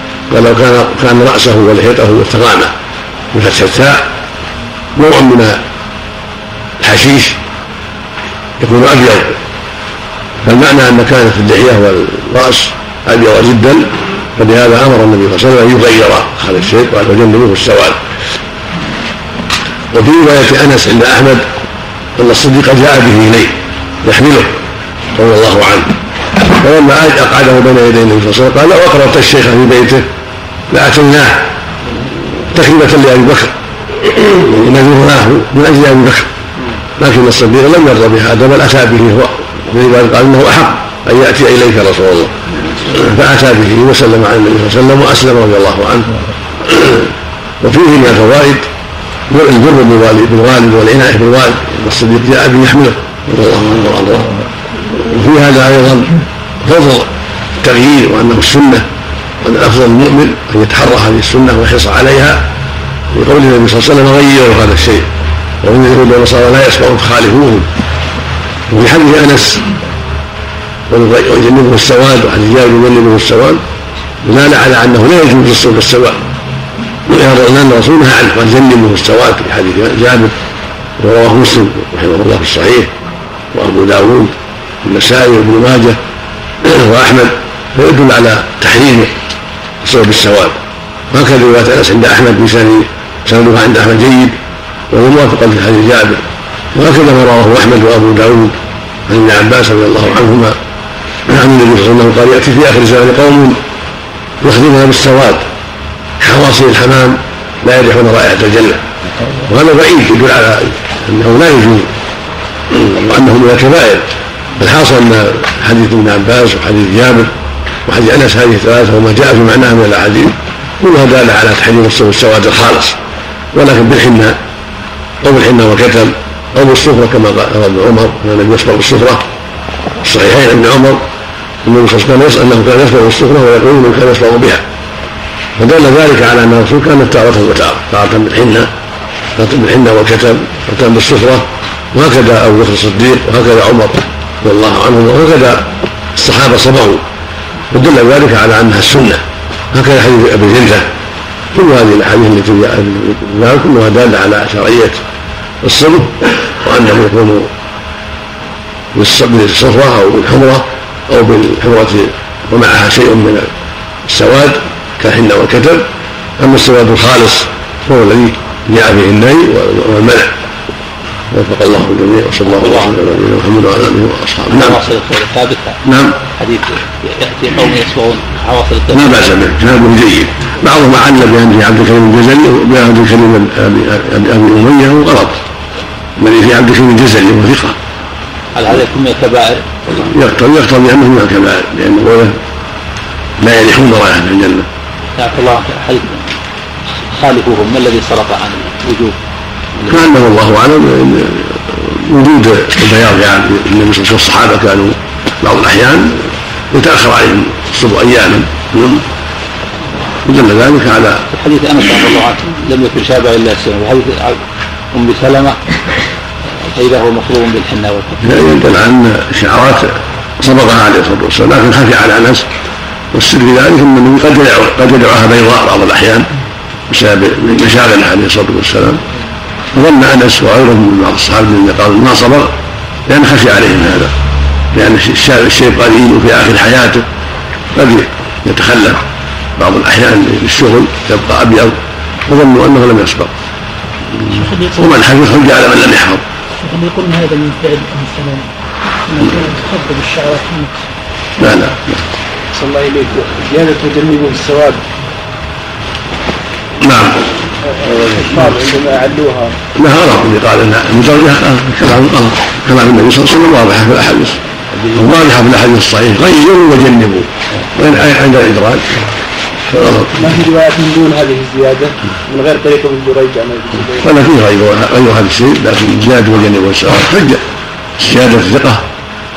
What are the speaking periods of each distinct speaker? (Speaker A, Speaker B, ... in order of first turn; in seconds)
Speaker A: 0.3-2.7, 3.3-4.0, 5.0-5.6, 6.8-7.4, 8.6-9.4, 10.4-18.0, 19.9-21.5, 22.2-24.5, 25.1-30.0, 30.7-31.4, 32.5-36.3, 37.0-42.3, 42.9-47.1, 47.6-48.7, 49.3-56.1, 56.6-57.1, 57.6-58.9, 59.4-62.4, 63.1-65.1, 65.6-67.7, 68.7-69.7, 70.9-73.6, 74.2-76.2, 77.1-80.3, 81.0-82.9, 83.5-86.0, 86.6-89.1, 89.8-90.6, 91.1-94.4, 94.9-98.6, 99.1-100.6, 101.3-103.6, 104.4-105.5, 106.2-108.8, 109.5-111.9, 112.7-114.0, 114.6-117.3, 117.9-123.0, 123.5-124.4, 125.2-129.2, 130.0-131.0, 131.6-134.6, 135.6-138.7, 139.4-147.0, 147.7-149.2, 149.7-150.9, 151.5-155.0, 155.6-157.5, 158.9-163.5, 164.1-165.9, 166.4-170.3, 171.3-174.8, 175.8-176.2, 178.9-185.4, 186.2-187.8, 189.9-192.4, 193.4-194.7, 199.9-209.1, 210.2-211.2, 218.2-222.5, 223.1-226.3, 226.9-229.0, 229.7-232.5, 233.1-234.1, 234.7-237.1, 237.8-239.0, 239.6-241.8, 242.3-243.3, 244.8-246.2, 251.4-252.0, 256.8-257.2, 259.8-264.4, 264.9-269.0, 269.7-270.1, 274.0-277.4, 278.0-278.8
Speaker B: 172.6-172.9, 174.5-175.8, 176.4-179.3, 188.6-189.7, 195.2-196.2, 197.1-199.2, 211.3-214.4, 214.9-215.6, 216.6-218.2
Speaker C: 244.3-245.0, 246.6-248.5, 249.1-250.9
Speaker D: 252.5-254.8, 257.8-259.5, 270.1-274.1